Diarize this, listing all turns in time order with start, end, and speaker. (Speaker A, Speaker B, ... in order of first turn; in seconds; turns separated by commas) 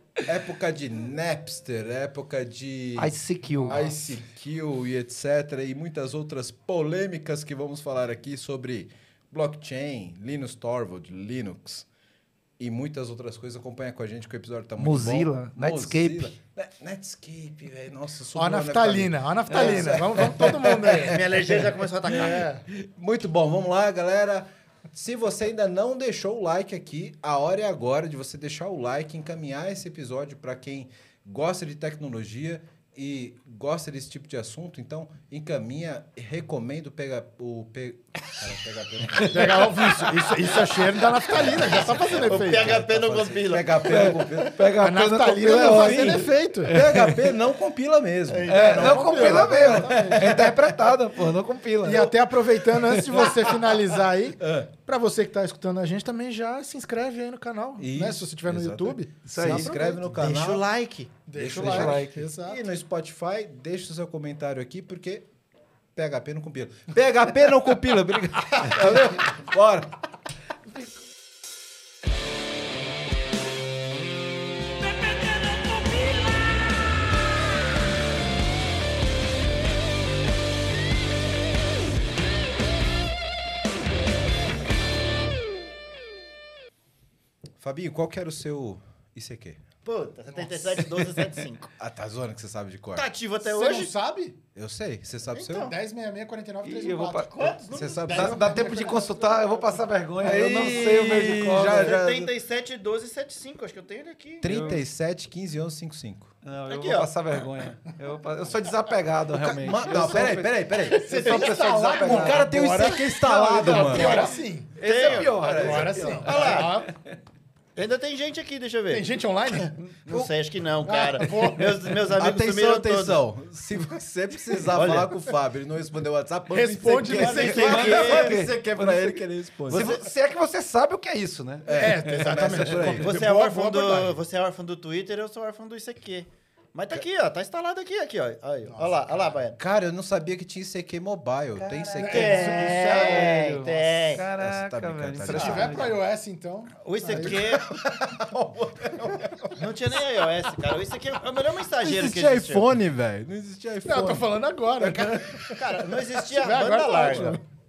Speaker A: 0.2-11.8, Speaker B: 3.0-3.8, Speaker C: 3.6-4.0, Speaker A: 12.6-44.6, Speaker B: 14.8-16.3, Speaker C: 18.3-21.4, Speaker D: 19.5-19.9, Speaker D: 20.9-22.4, Speaker C: 22.1-22.6, Speaker B: 39.2-39.7, Speaker C: 39.2-42.8, Speaker D: 41.5-44.3, Speaker B: 43.8-47.4, Speaker C: 44.7-46.8, Speaker A: 45.5-50.9, Speaker D: 48.3-49.2, Speaker B: 48.5-52.2, Speaker C: 48.5-50.5, Speaker C: 51.8-60.1, Speaker B: 52.8-53.2, Speaker A: 53.1-53.8, Speaker A: 54.4-54.7, Speaker A: 57.8-60.6, Speaker B: 59.2-59.7, Speaker D: 60.0-61.2, Speaker C: 61.2-62.6, Speaker A: 61.3-65.3, Speaker B: 61.5-62.3, Speaker A: 65.9-70.0, Speaker A: 87.6-89.6, Speaker D: 89.8-91.7, Speaker C: 90.3-90.6, Speaker A: 91.8-93.0, Speaker D: 92.9-93.9, Speaker C: 93.4-94.4, Speaker A: 94.5-95.7, Speaker D: 95.3-95.8, Speaker C: 95.5-99.7, Speaker B: 96.6-97.5, Speaker D: 97.2-100.3, Speaker A: 97.7-98.5, Speaker B: 98.1-102.0, Speaker A: 100.2-102.3, Speaker D: 101.6-104.5, Speaker A: 104.4-106.3, Speaker B: 104.4-104.8, Speaker B: 106.4-112.5, Speaker D: 106.7-107.1, Speaker C: 109.5-114.8, Speaker A: 109.5-111.4, Speaker D: 111.2-112.0, Speaker A: 111.9-114.3, Speaker B: 113.5-117.0, Speaker D: 113.9-114.3, Speaker D: 114.8-116.7, Speaker A: 115.2-116.0, Speaker C: 115.4-116.9, Speaker D: 117.8-123.2, Speaker C: 118.9-120.0, Speaker C: 120.8-121.9, Speaker A: 122.1-129.9, Speaker D: 124.7-125.2, Speaker C: 126.5-128.2, Speaker D: 127.1-128.4, Speaker B: 127.3-133.0, Speaker D: 129.7-130.1, Speaker A: 131.7-133.1, Speaker C: 131.7-134.2, Speaker D: 132.9-139.6, Speaker C: 138.7-139.2, Speaker A: 139.5-143.0, Speaker B: 141.6-145.9, Speaker D: 141.7-144.2, Speaker C: 142.0-143.6, Speaker A: 144.2-145.9, Speaker C: 145.2-147.4, Speaker D: 145.3-145.6, Speaker D: 146.8-147.7, Speaker A: 147.1-149.7, Speaker D: 149.5-152.7, Speaker A: 151.8-155.6, Speaker C: 153.8-157.4, Speaker D: 155.6-157.4